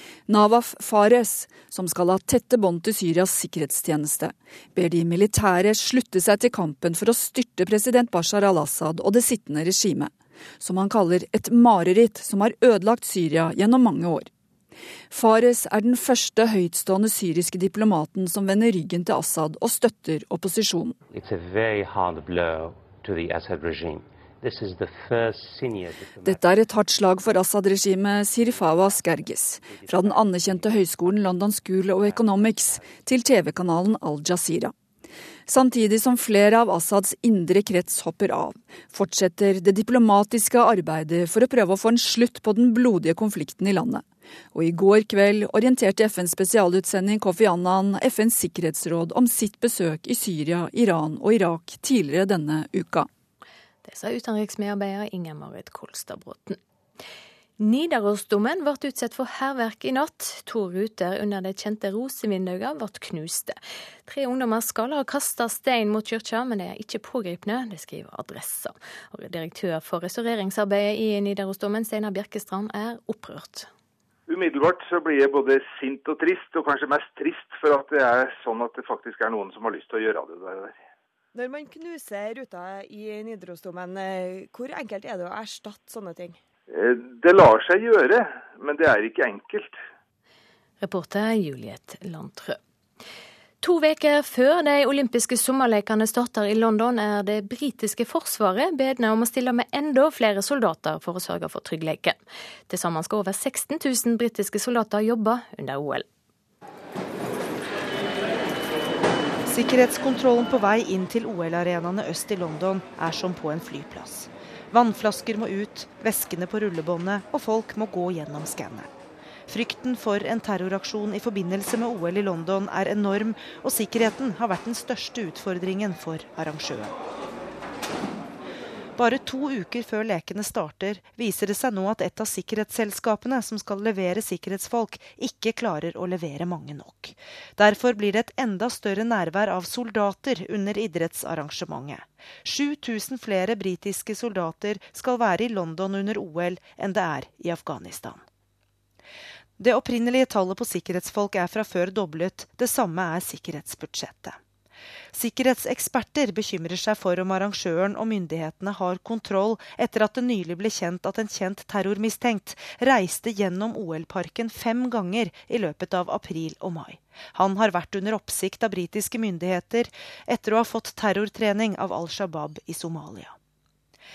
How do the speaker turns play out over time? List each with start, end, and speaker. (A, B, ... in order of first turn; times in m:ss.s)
0:00.3-0:14.3 A
0:15.1-0:21.0 A
0:26.2-0:34.7 A
0:35.5-0:53.1 A
0:53.8-0:56.6 B
0:57.6-1:13.7 B
1:14.3-1:20.8 C
1:21.3-1:26.4 D
1:26.7-1:29.8 C
1:30.8-1:32.6 B
1:33.6-1:46.0 B
1:49.5-1:58.9 E
1:59.5-2:07.0 E
2:09.0-2:28.2 E
2:29.6-2:34.4 E
2:35.1-2:53.4 E